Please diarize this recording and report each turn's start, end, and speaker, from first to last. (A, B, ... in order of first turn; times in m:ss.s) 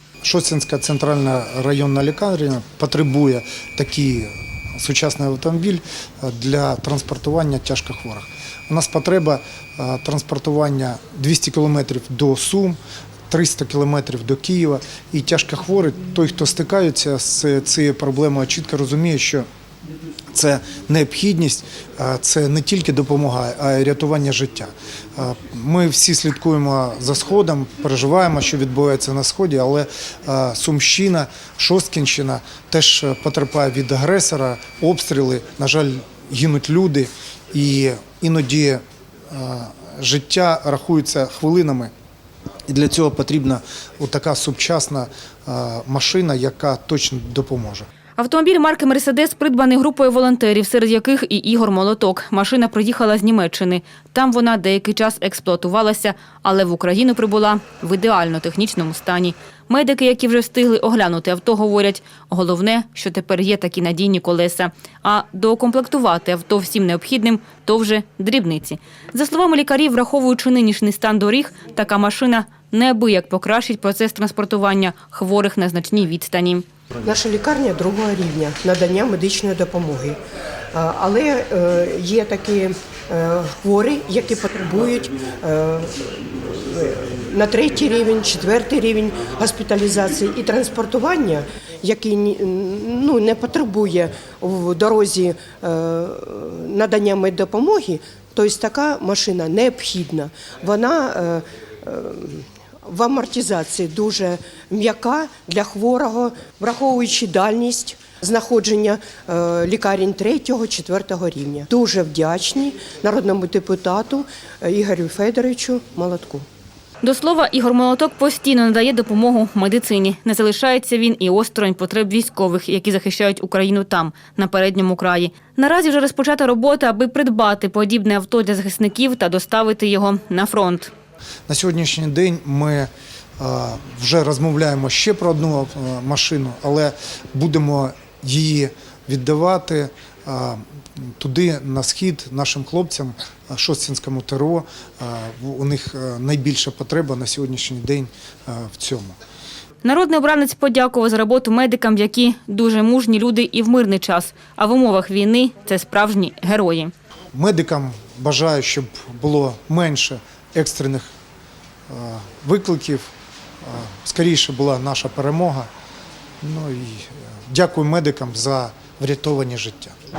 0:00.2-0:12.8 A
0:13.3-0:19.4 A
0:20.3-0:41.9 A
0:42.7-0:47.8 A
0:48.2-1:16.6 B
1:17.0-1:20.2 C
1:20.7-1:56.4 C
1:57.0-2:10.9 B
2:11.5-2:29.2 A
2:29.8-2:36.9 B
2:37.3-2:41.1 A
2:41.9-2:43.1 A
2:43.6-2:45.7 A
2:46.4-2:50.0 A